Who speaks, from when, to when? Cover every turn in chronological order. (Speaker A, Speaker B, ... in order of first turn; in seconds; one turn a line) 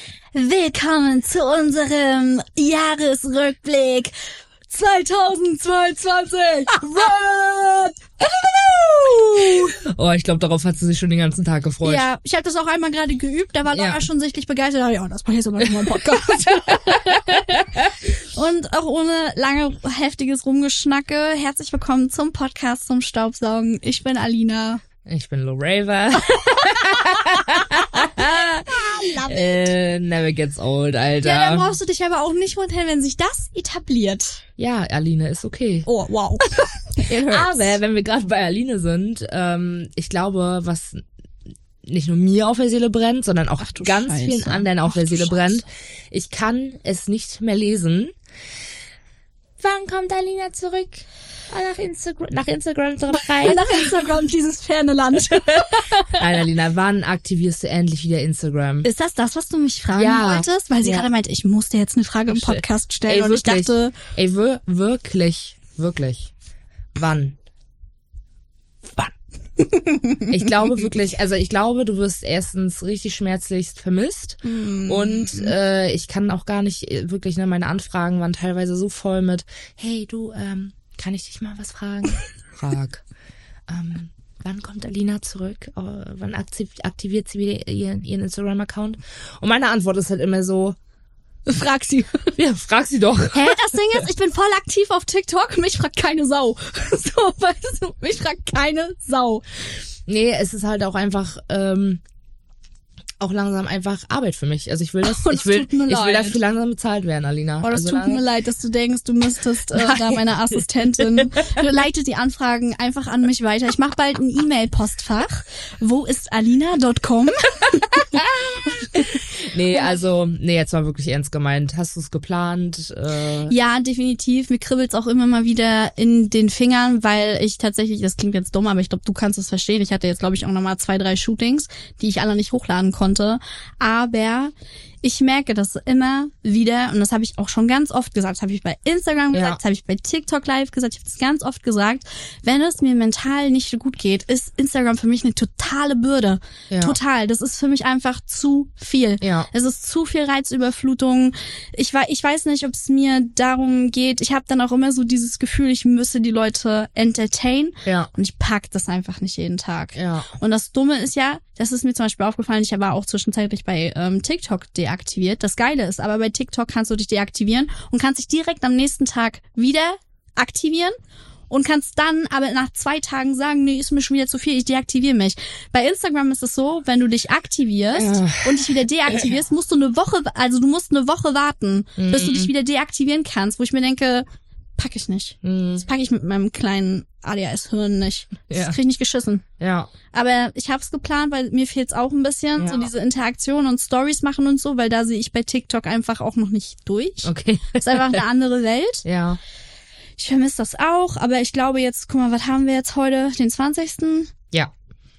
Speaker A: 0.3-4.1
Speaker A: 4.7-9.7
Speaker B: 9.3-12.0
Speaker A: 11.8-17.6
Speaker B: 13.7-14.0
Speaker B: 16.5-17.9
Speaker A: 18.2-24.8
Speaker B: 25.1-31.7
Speaker A: 27.6-29.7
Speaker A: 31.2-34.4
Speaker B: 34.6-35.9
Speaker A: 35.9-37.8
Speaker B: 37.3-41.0
Speaker B: 41.8-48.1
Speaker A: 43.6-45.5
Speaker B: 49.6-53.8
Speaker A: 53.4-56.4
Speaker B: 55.3-58.9
Speaker A: 58.8-64.0
Speaker B: 60.0-61.1
Speaker B: 62.3-66.3
Speaker B: 67.0-67.4
Speaker A: 69.6-70.5
Speaker B: 70.3-83.0
Speaker A: 74.5-75.5
Speaker B: 83.7-90.8
Speaker A: 91.5-92.3
Speaker B: 92.4-93.8
Speaker A: 93.3-99.5
Speaker B: 100.1-102.0
Speaker B: 103.2-108.2
Speaker A: 105.0-106.4
Speaker A: 107.6-119.2
Speaker B: 109.7-110.3
Speaker B: 111.0-111.5
Speaker B: 118.0-123.5
Speaker A: 123.5-171.0
Speaker B: 139.3-139.6
Speaker B: 146.7-147.0
Speaker B: 149.2-149.5
Speaker B: 157.8-158.1
Speaker B: 159.9-160.3
Speaker A: 171.5-184.3
Speaker B: 177.9-178.6
Speaker B: 182.0-182.5
Speaker A: 184.8-189.4
Speaker B: 185.4-185.9
Speaker B: 188.5-188.8
Speaker B: 189.6-189.9
Speaker A: 190.1-199.0
Speaker B: 192.6-192.9
Speaker B: 197.2-198.2
Speaker B: 199.0-199.4
Speaker A: 200.2-204.3